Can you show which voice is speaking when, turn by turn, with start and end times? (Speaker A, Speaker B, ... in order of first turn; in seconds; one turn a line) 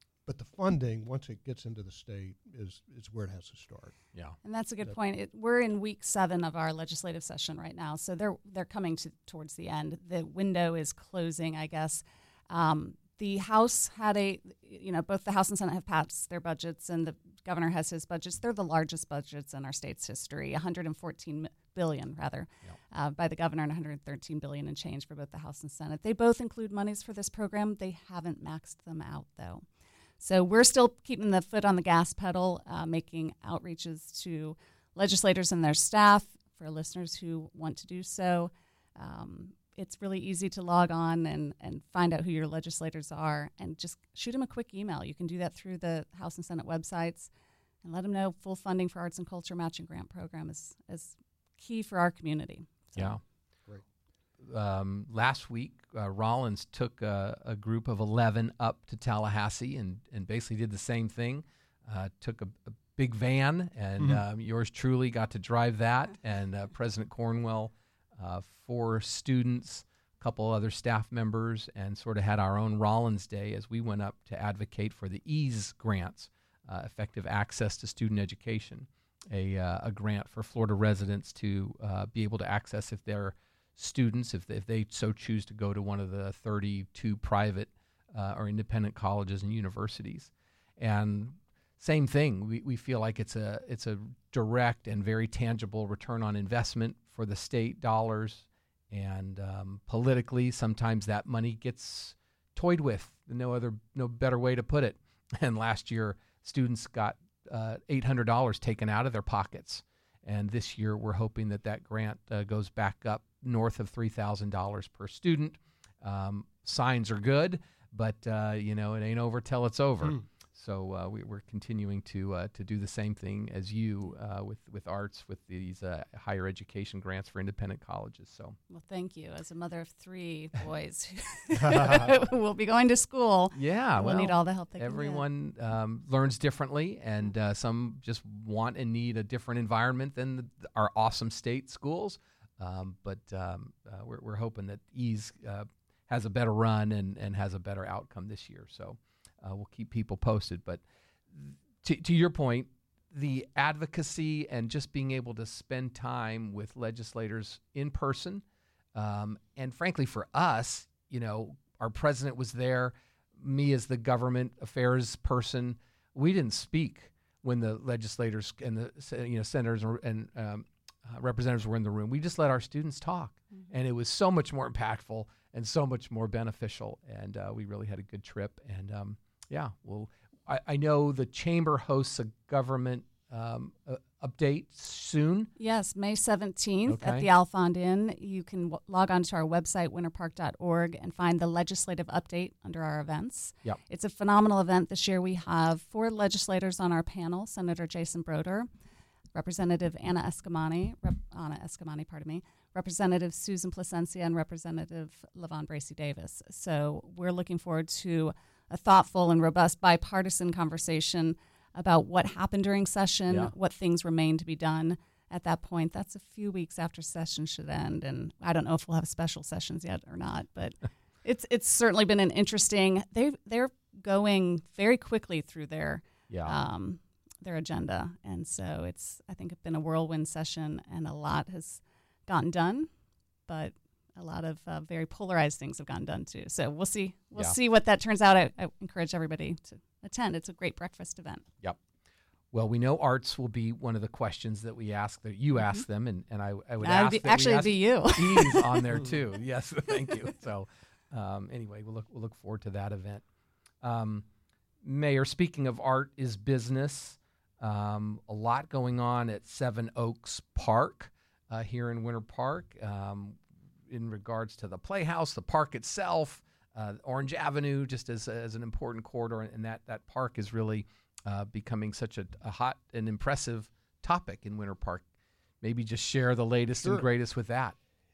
Speaker A: 0.2-3.9
Speaker B: 4.4-29.6
Speaker B: 30.2-47.3
Speaker B: 47.8-53.2
Speaker C: 52.9-53.2
Speaker C: 54.4-128.6
Speaker B: 128.7-135.2
Speaker A: 131.6-132.1
Speaker C: 133.5-158.4
Speaker C: 158.9-185.5
Speaker B: 185.6-198.7
Speaker C: 186.9-187.3
Speaker B: 199.3-232.9
Speaker C: 226.3-226.6
Speaker B: 233.5-241.4
Speaker C: 242.5-253.2
Speaker B: 245.6-245.8
Speaker B: 246.8-248.8
Speaker C: 253.8-254.2
Speaker C: 254.8-275.0
Speaker C: 275.6-277.7